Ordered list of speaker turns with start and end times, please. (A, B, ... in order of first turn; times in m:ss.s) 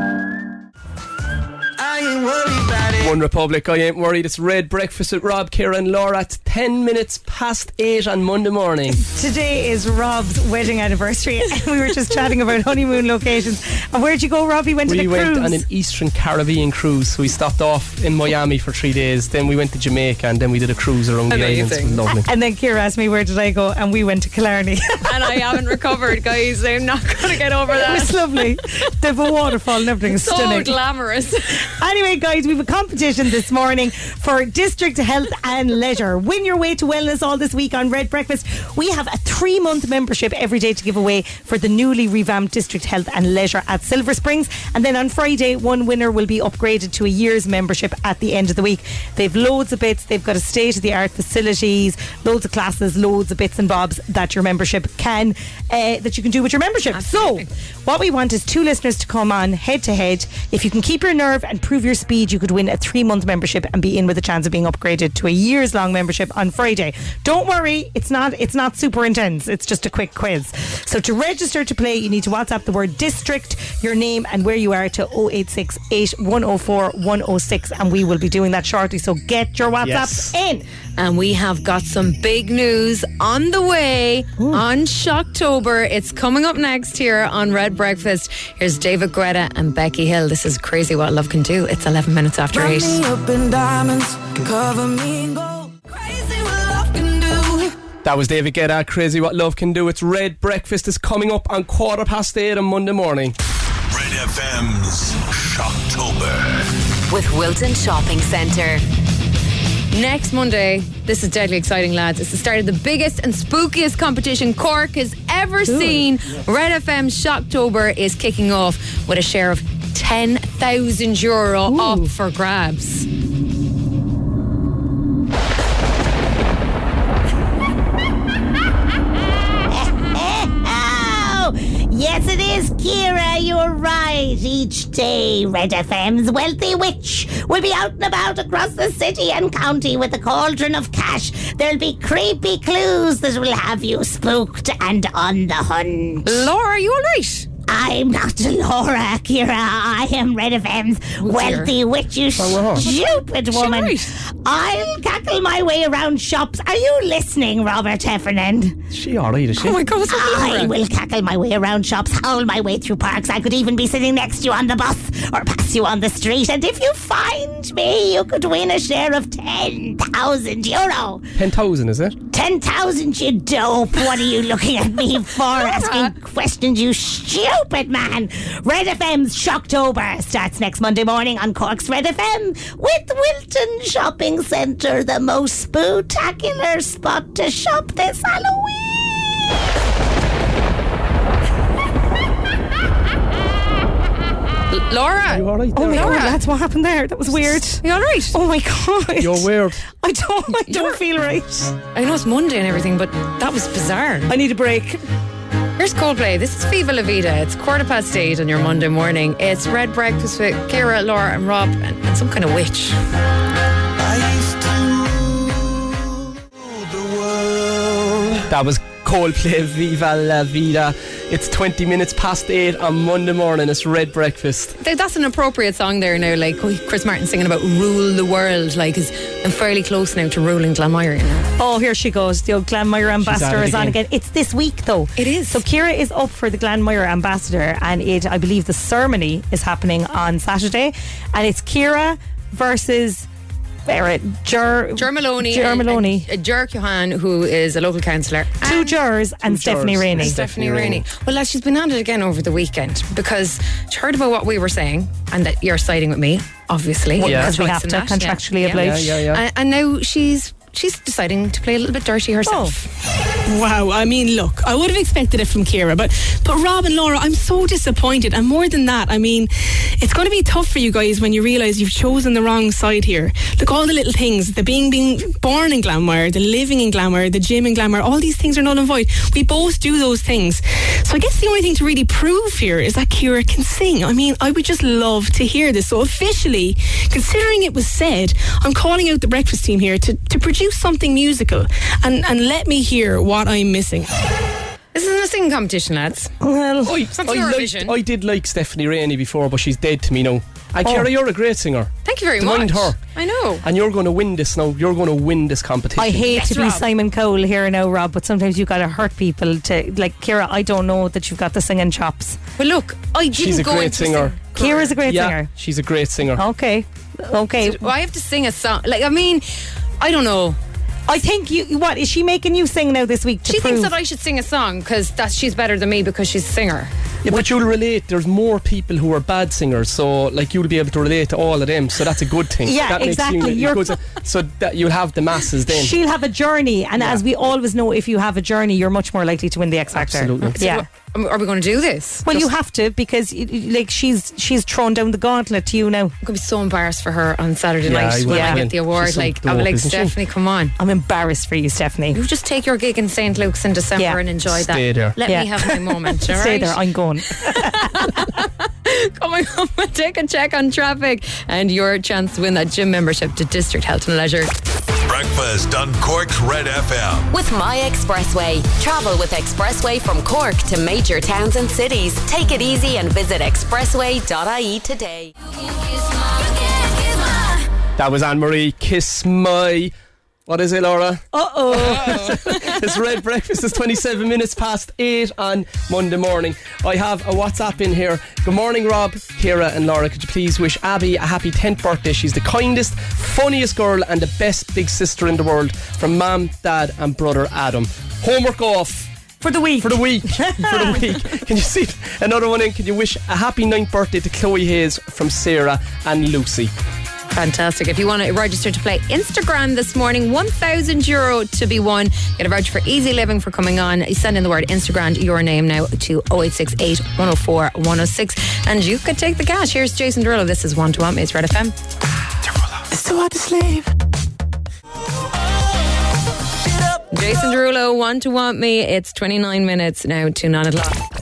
0:01.8-0:03.0 A
0:03.0-0:09.0 B
0:09.0-0:15.6 C
0:14.9-0:22.3 B
0:21.3-0:22.0 D
0:22.3-0:25.4 C
0:25.0-0:28.4 D
0:27.7-0:30.8 C
0:30.1-0:31.6 D
0:31.8-1:20.6 C
0:56.9-0:57.5 D
1:19.8-1:20.3 B
1:21.0-1:33.0 D
1:32.5-1:37.8 A
1:38.0-1:43.3 B
1:43.9-1:46.7 E
1:47.1-1:48.8 F
1:49.9-2:03.1 D
1:55.7-1:56.0 C
2:01.7-2:02.1 C
2:09.7-2:26.2 G
2:26.2-2:27.5 D
2:27.7-2:38.7 G
2:31.2-2:31.7 D
2:31.3-2:31.8 C
2:32.4-2:32.9 B
2:32.8-2:34.1 D
2:32.8-2:33.8 C
2:38.9-2:39.8 B
2:39.6-2:40.7 D
2:40.1-2:51.2 G
2:40.4-2:40.7 C
2:51.4-2:52.2 B
2:52.3-3:09.3 G
2:54.0-2:54.2 C
2:55.2-2:56.1 C
2:55.5-2:56.1 D
3:14.7-3:16.4 D
3:15.3-3:16.4 B
3:15.7-3:21.7 C
3:17.8-3:18.4 D
3:19.2-3:19.8 B
3:20.6-3:21.0 D
3:21.9-3:24.3 D
3:24.3-3:25.0 C
3:25.8-3:33.0 D
3:38.5-3:44.8 B
3:44.8-3:51.5 D
3:51.6-4:03.3 C
3:53.2-3:54.0 B
3:55.2-3:55.6 D
4:03.9-4:06.2 C
4:05.0-4:09.0 D
4:08.6-4:10.4 C
4:09.5-4:11.0 B
4:10.2-4:22.8 D
4:17.2-4:19.2 C
4:17.2-4:17.5 B
4:18.8-4:19.4 B
4:22.5-4:22.7 C
4:23.4-4:54.1 H
4:54.9-4:56.3 D
4:56.4-4:57.0 C
4:56.8-5:03.0 B
4:57.1-4:57.9 D
5:02.0-5:03.6 D
5:03.6-5:06.3 B
5:06.0-5:12.4 C
5:06.3-5:06.8 D
5:12.6-5:15.0 D
5:13.3-5:14.4 B
5:14.6-5:15.5 C
5:15.0-5:16.4 B
5:16.4-5:17.9 C
5:17.6-5:19.5 D
5:20.0-5:20.6 D
5:21.1-5:23.9 C
5:23.4-5:26.9 D
5:27.2-5:35.9 B
5:32.6-5:33.9 C
5:35.7-5:40.8 C
5:37.0-5:37.2 B
5:39.9-5:40.6 B
5:40.4-5:42.5 D
5:42.2-5:46.1 C
5:46.2-5:50.7 D
5:47.8-5:50.1 B
5:48.3-5:48.6 C
5:50.8-5:52.2 C
5:52.1-5:56.8 D
5:54.5-5:55.2 B
5:55.2-5:58.1 C
5:57.4-6:04.5 D
6:05.1-6:07.3 E
6:07.3-6:15.3 F
6:15.7-6:17.6 A
6:18.0-6:19.9 B
6:20.5-6:39.1 B
6:21.3-6:22.6 C
6:39.4-6:41.0 C
6:39.8-6:46.7 B
6:47.3-7:01.7 D
7:02.9-7:03.9 A
7:07.1-7:11.0 D